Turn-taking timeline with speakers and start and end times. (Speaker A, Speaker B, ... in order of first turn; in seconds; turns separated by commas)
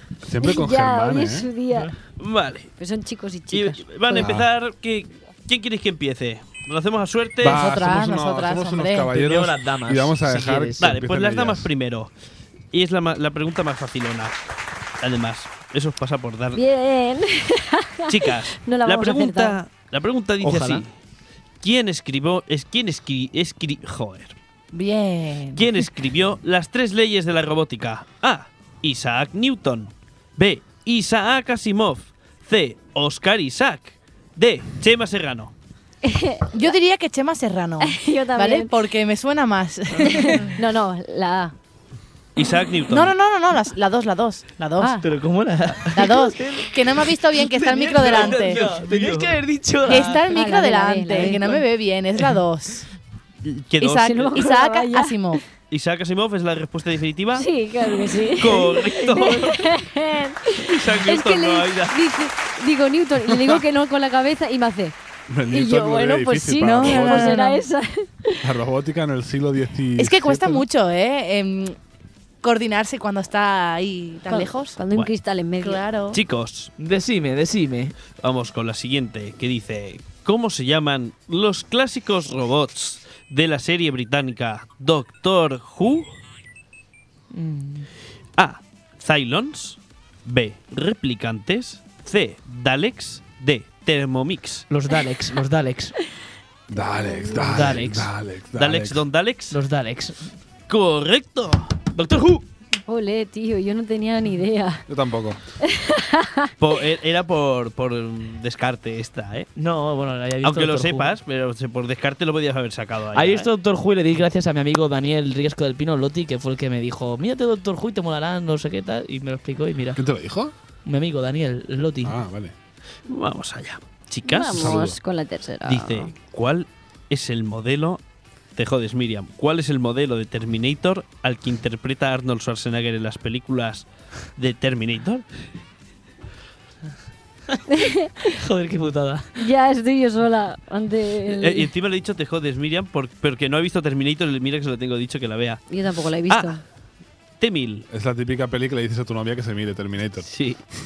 Speaker A: 0.2-1.5, Speaker B: 0.4-1.9, Speaker C: 2.0-2.7, Speaker B: 2.8-4.3, Speaker C: 3.5-7.6, Speaker A: 4.2-4.5, Speaker A: 7.4-11.7, Speaker D: 7.4-9.1, Speaker E: 9.1-10.8, Speaker C: 10.8-12.1, Speaker C: 12.7-14.4, Speaker C: 15.0-16.6, Speaker B: 16.5-19.6, Speaker C: 18.1-20.9, Speaker E: 20.4-20.8, Speaker C: 21.6-24.4, Speaker D: 24.7-25.8, Speaker C: 25.5-35.5, Speaker B: 36.0-36.7, Speaker D: 36.5-40.5, Speaker B: 37.8-38.7, Speaker E: 39.9-40.4, Speaker B: 40.1-41.5, Speaker C: 42.4-43.1, Speaker D: 42.9-45.0, Speaker B: 44.8-45.0, Speaker E: 45.0-50.3, Speaker D: 45.9-48.7, Speaker C: 48.0-49.3, Speaker D: 49.8-52.9, Speaker B: 49.9-51.6, Speaker C: 53.4-54.5, Speaker D: 53.8-55.4, Speaker B: 54.0-55.4, Speaker C: 55.7-57.5, Speaker B: 57.3-64.9, Speaker C: 58.4-59.6, Speaker E: 59.1-59.6, Speaker C: 60.5-62.0, Speaker A: 65.3-67.4, Speaker B: 65.5-68.4, Speaker D: 66.6-67.6, Speaker A: 68.4-70.6, Speaker D: 70.0-71.7, Speaker D: 72.4-74.8, Speaker B: 74.3-75.8, Speaker D: 75.6-76.2, Speaker C: 76.1-76.7, Speaker E: 76.8-78.0, Speaker C: 78.1-86.1, Speaker E: 87.3-87.9, Speaker C: 88.3-94.7, Speaker E: 94.7-96.0, Speaker A: 96.7-99.0, Speaker B: 96.7-97.6, Speaker E: 97.4-98.1, Speaker C: 98.5-99.6, Speaker E: 99.5-100.3, Speaker C: 100.7-101.8, Speaker E: 101.9-102.4, Speaker B: 102.9-104.8, Speaker A: 104.9-105.4, Speaker B: 105.6-106.5, Speaker C: 106.6-109.5, Speaker E: 109.5-111.1, Speaker C: 110.4-113.5, Speaker E: 113.1-120.0, Speaker A: 119.9-120.5, Speaker E: 120.8-122.2, Speaker A: 122.0-122.5, Speaker C: 123.1-124.8, Speaker B: 124.2-126.1, Speaker A: 124.5-125.0, Speaker C: 125.6-128.0, Speaker C: 128.6-135.2, Speaker B: 137.7-138.1, Speaker E: 138.3-139.4, Speaker B: 139.4-141.7, Speaker C: 141.3-145.6, Speaker B: 145.7-146.6, Speaker C: 146.3-146.6, Speaker C: 147.4-147.9, Speaker A: 147.9-150.3, Speaker C: 150.2-150.6